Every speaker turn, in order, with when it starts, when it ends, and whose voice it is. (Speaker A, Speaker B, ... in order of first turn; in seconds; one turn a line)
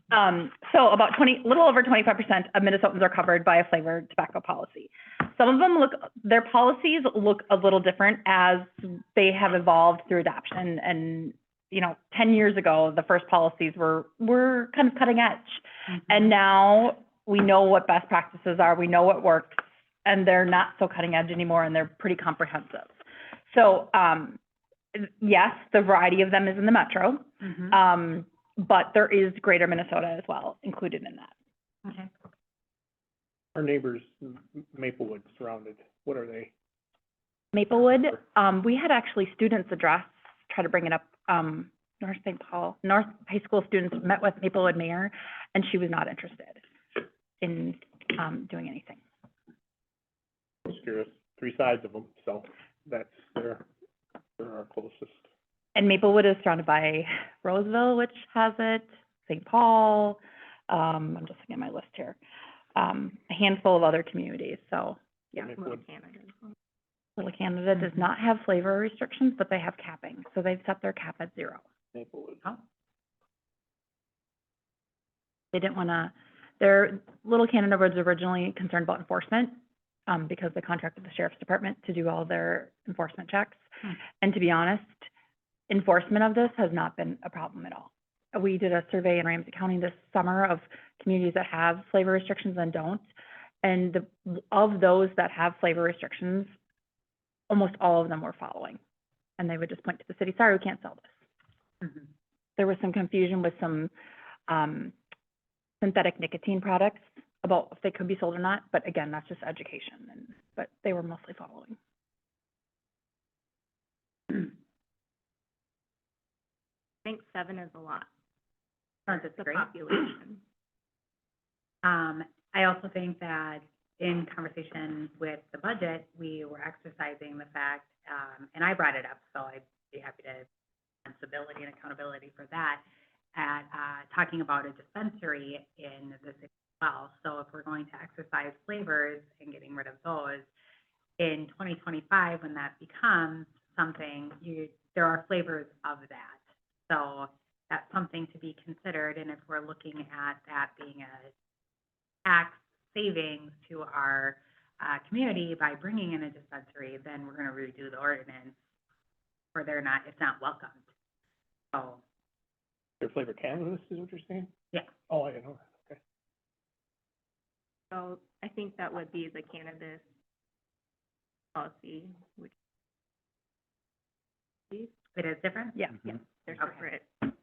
Speaker A: 0.1-22.9
Speaker A: 23.5-24.4
Speaker A: 24.9-31.3
Speaker B: 27.4-27.8
Speaker B: 31.8-32.1
Speaker C: 33.5-36.5
Speaker A: 37.5-46.6
Speaker A: 47.4-49.0
Speaker C: 50.7-53.6
Speaker C: 54.4-55.3
Speaker A: 55.8-62.2
Speaker A: 62.8-65.5
Speaker C: 65.4-65.8
Speaker D: 65.4-66.5
Speaker A: 67.2-71.6
Speaker B: 67.8-68.0
Speaker C: 71.9-72.4
Speaker A: 75.5-79.6
Speaker A: 80.1-83.7
Speaker A: 84.2-85.1
Speaker A: 85.7-93.1
Speaker A: 93.6-96.5
Speaker A: 97.5-98.8
Speaker A: 99.4-101.1
Speaker A: 102.6-103.9
Speaker A: 104.5-104.9
Speaker A: 105.8-111.8
Speaker D: 117.0-118.1
Speaker D: 119.1-120.4
Speaker B: 119.1-119.7
Speaker B: 121.8-130.5
Speaker B: 131.1-132.8
Speaker B: 133.3-140.5
Speaker B: 141.2-151.3
Speaker B: 152.2-158.6
Speaker B: 159.5-160.8
Speaker B: 161.7-162.0
Speaker C: 163.0-164.5
Speaker C: 165.1-166.0
Speaker D: 167.9-170.0
Speaker D: 171.6-172.5
Speaker B: 175.1-175.9
Speaker D: 176.0-177.2
Speaker B: 176.6-176.8